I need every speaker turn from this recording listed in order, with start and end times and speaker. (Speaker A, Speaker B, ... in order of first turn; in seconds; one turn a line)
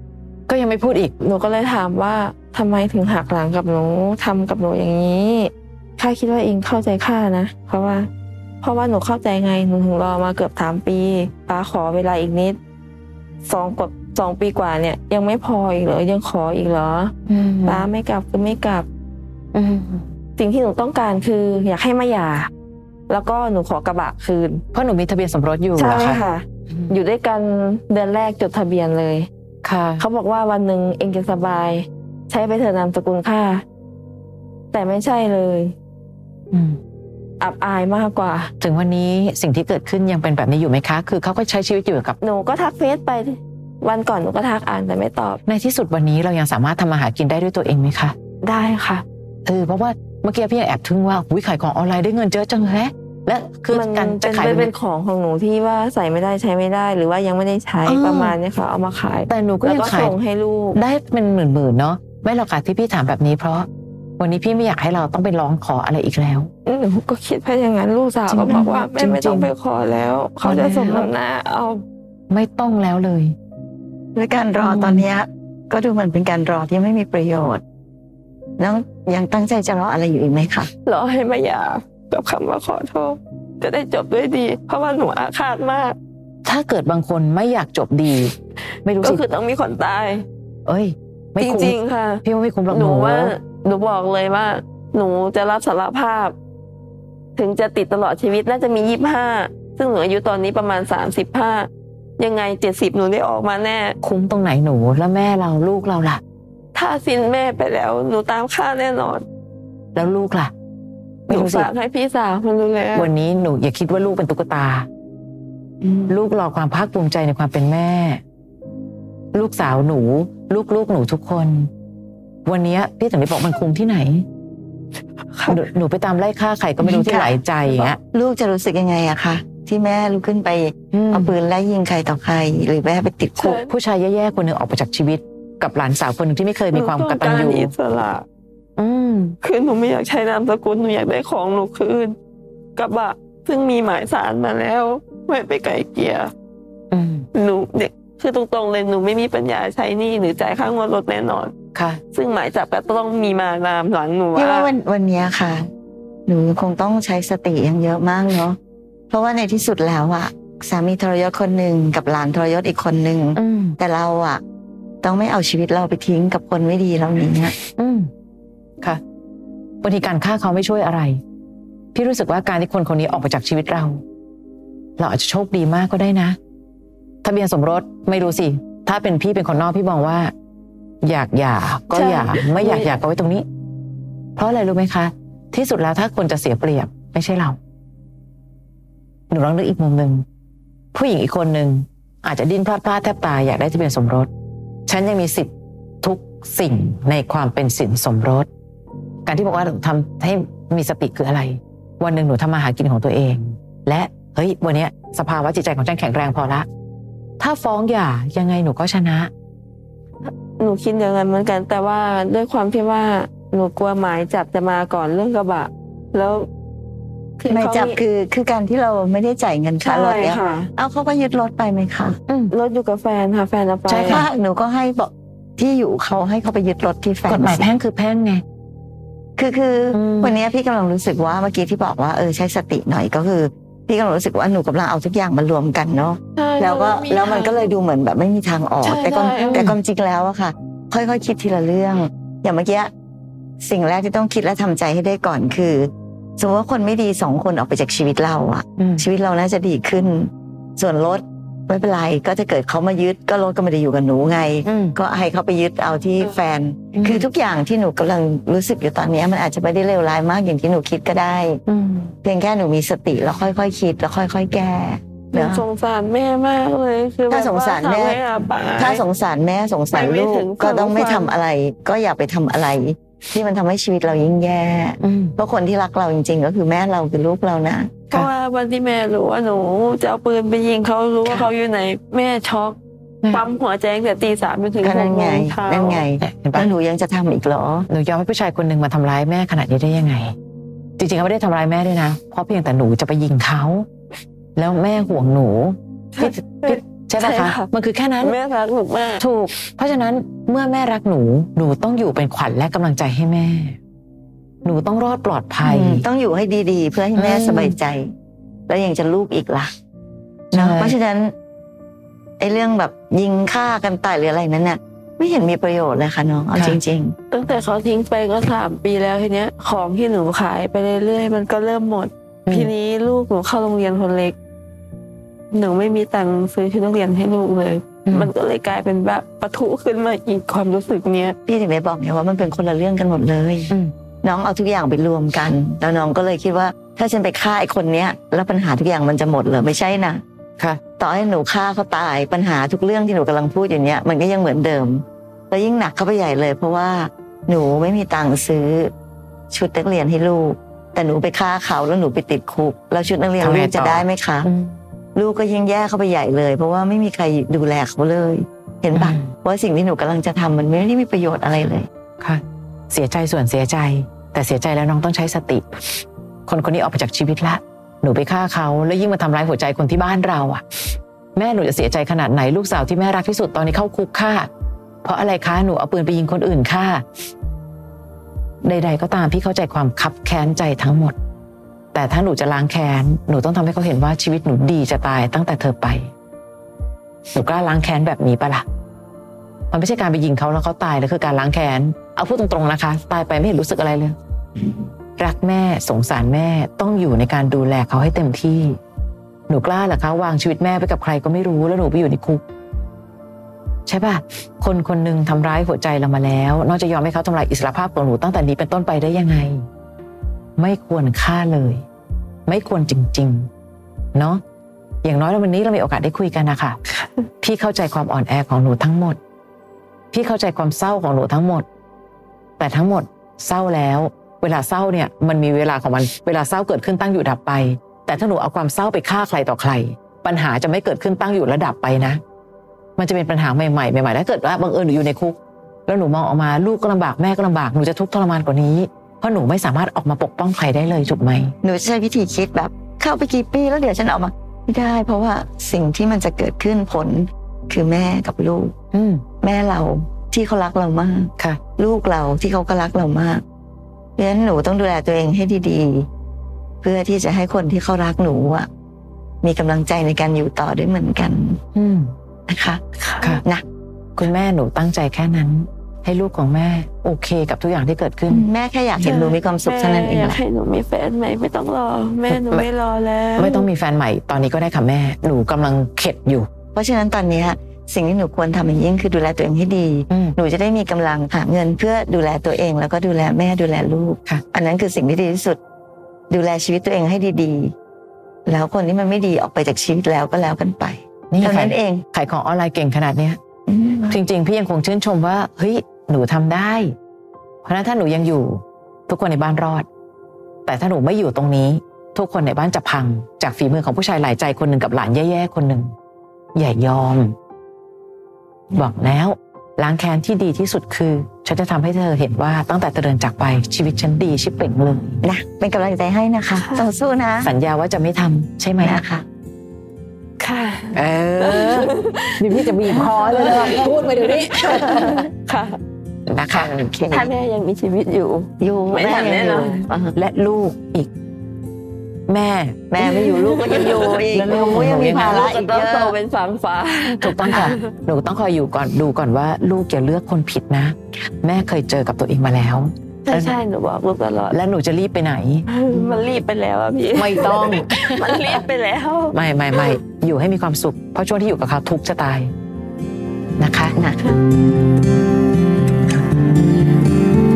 Speaker A: 0.5-1.1
Speaker B: 1.2-8.1
Speaker B: 8.6-12.6
Speaker B: 13.4-17.1
Speaker A: 17.3-17.9
Speaker B: 17.6-18.9
Speaker A: 19.5-20.1
Speaker B: 20.4-22.5
Speaker B: 23.1-24.6
Speaker A: 24.7-26.9
Speaker B: 25.8-29.3
Speaker A: 29.6-30.0
Speaker B: 30.0-33.6
Speaker B: 34.7-35.8
Speaker A: 36.5-36.8
Speaker B: 37.4-38.5
Speaker A: 38.6-42.2
Speaker B: 42.2-45.4
Speaker A: 45.5-48.1
Speaker B: 48.4-49.0
Speaker A: 49.5-54.7
Speaker B: 53.7-60.8
Speaker A: 57.9-58.4
Speaker A: 59.3-60.1
Speaker A: 60.8-63.7
Speaker A: 64.2-66.5
Speaker B: 66.7-71.8
Speaker A: 68.3-69.5
Speaker A: 70.4-71.1
Speaker A: 72.3-73.4
Speaker C: 74.1-77.6
Speaker A: 74.6-75.0
Speaker C: 78.6-80.7
Speaker B: 80.8-86.0
Speaker A: 86.4-88.3
Speaker A: 88.8-89.2
Speaker B: 89.0-90.2
Speaker A: 90.7-93.3
Speaker B: 91.4-96.3
Speaker B: 97.4-104.0
Speaker A: 104.0-106.2
Speaker B: 106.7-109.2
Speaker A: 109.9-110.5
Speaker B: 111.3-113.1
Speaker A: 111.3-111.7
Speaker A: 112.9-114.9
Speaker C: 115.8-116.1
Speaker A: 116.1-118.2
Speaker A: 119.3-121.7
Speaker A: 122.5-124.2
Speaker B: 125.3-125.6
Speaker A: 125.5-128.0
Speaker C: 126.8-133.6
Speaker A: 130.9-131.4
Speaker B: 133.4-133.7
Speaker A: 133.6-137.7
Speaker B: 136.7-138.2
Speaker A: 138.8-139.4
Speaker B: 139.4-142.2
Speaker B: 142.8-146.3
Speaker A: 146.9-147.3
Speaker B: 147.3-151.5
Speaker A: 151.8-152.0
Speaker B: 152.1-154.7
Speaker C: 154.3-155.7
Speaker C: 156.3-158.6
Speaker C: 159.1-164.4
Speaker A: 163.4-163.8
Speaker C: 165.0-167.5
Speaker A: 167.8-168.1
Speaker A: 169.8-171.2
Speaker A: 171.9-174.0
Speaker A: 175.0-176.4
Speaker A: 177.2-180.3
Speaker A: 181.0-183.4
Speaker B: 181.9-182.9
Speaker A: 184.4-187.6
Speaker A: 189.3-190.2
Speaker A: 190.9-194.3
Speaker A: 194.9-195.5
Speaker A: 196.0-198.5
Speaker A: 199.2-206.7
Speaker A: 207.4-209.3
Speaker B: 210.2-216.5
Speaker B: 217.4-218.0
Speaker C: 217.5-222.2
Speaker B: 219.8-220.7
Speaker B: 222.5-224.3
Speaker A: 223.9-224.3
Speaker C: 224.0-227.7
Speaker A: 227.3-228.4
Speaker C: 229.4-242.9
Speaker A: 229.9-230.4
Speaker B: 236.4-237.7
Speaker B: 238.8-239.6
Speaker A: 239.4-239.8
Speaker C: 243.6-261.6
Speaker A: 248.8-249.0
Speaker A: 254.6-254.9
Speaker A: 256.9-257.3
Speaker A: 261.7-262.1
Speaker C: 262.2-265.6
Speaker B: 265.3-269.0
Speaker C: 267.3-268.2
Speaker C: 268.8-278.0
Speaker B: 269.9-271.4
Speaker A: 275.0-275.4
Speaker B: 278.1-282.8
Speaker A: 281.2-281.5
Speaker B: 283.3-286.0
Speaker C: 284.8-287.9
Speaker A: 286.2-286.7
Speaker A: 287.9-290.3
Speaker A: 291.0-293.9
Speaker A: 294.6-298.4
Speaker B: 296.1-297.7
Speaker B: 298.2-299.2
Speaker A: 299.2-303.8
Speaker A: 304.6-306.1
Speaker C: 305.6-308.1
Speaker A: 307.1-307.8
Speaker C: 308.7-309.7
Speaker A: 310.5-310.9
Speaker C: 310.5-311.3
Speaker C: 312.4-317.1
Speaker B: 317.3-324.4
Speaker A: 322.4-322.7
Speaker B: 325.5-331.4
Speaker C: 331.4-333.7
Speaker C: 334.2-340.2
Speaker C: 341.0-348.9
Speaker C: 349.5-354.5
Speaker A: 353.4-354.8
Speaker C: 355.1-361.9
Speaker A: 358.9-359.2
Speaker A: 362.2-374.5
Speaker A: 375.0-377.0
Speaker A: 378.6-381.1
Speaker A: 381.9-386.1
Speaker A: 387.3-388.6
Speaker A: 389.7-398.8
Speaker A: 399.5-402.4
Speaker A: 403.9-409.6
Speaker A: 410.6-411.8
Speaker A: 412.5-413.5
Speaker A: 414.1-414.4
Speaker A: 415.0-416.8
Speaker A: 417.4-419.2
Speaker A: 420.1-421.6
Speaker A: 422.6-432.2
Speaker A: 433.0-441.5
Speaker C: 441.6-448.7
Speaker A: 448.9-449.2
Speaker C: 449.4-453.4
Speaker C: 454.2-456.1
Speaker C: 456.8-458.7
Speaker C: 459.4-461.6
Speaker A: 461.7-462.1
Speaker C: 462.5-462.8
Speaker B: 463.0-463.4
Speaker A: 464.2-468.4
Speaker C: 468.3-470.4
Speaker B: 469.0-473.7
Speaker A: 472.3-472.7
Speaker A: 473.4-476.5
Speaker C: 476.7-485.6
Speaker A: 480.1-480.4
Speaker C: 486.3-487.7
Speaker C: 488.4-492.0
Speaker A: 491.3-493.4
Speaker C: 493.7-494.2
Speaker A: 494.1-496.9
Speaker A: 497.6-499.9
Speaker A: 500.6-505.9
Speaker A: 506.6-507.4
Speaker A: 508.7-515.2
Speaker C: 515.2-517.5
Speaker B: 516.5-516.9
Speaker A: 517.4-519.0
Speaker C: 518.8-519.2
Speaker B: 520.4-525.8
Speaker A: 520.9-525.3
Speaker A: 526.3-526.8
Speaker C: 526.5-527.3
Speaker B: 527.1-529.9
Speaker C: 528.6-530.1
Speaker A: 530.1-531.1
Speaker A: 532.3-532.9
Speaker C: 532.9-536.1
Speaker B: 533.0-537.9
Speaker A: 534.3-535.5
Speaker A: 537.2-543.6
Speaker B: 543.3-544.6
Speaker A: 544.5-545.7
Speaker B: 545.7-550.0
Speaker A: 547.1-548.6
Speaker A: 549.3-552.5
Speaker A: 553.6-553.9
Speaker C: 554.0-554.2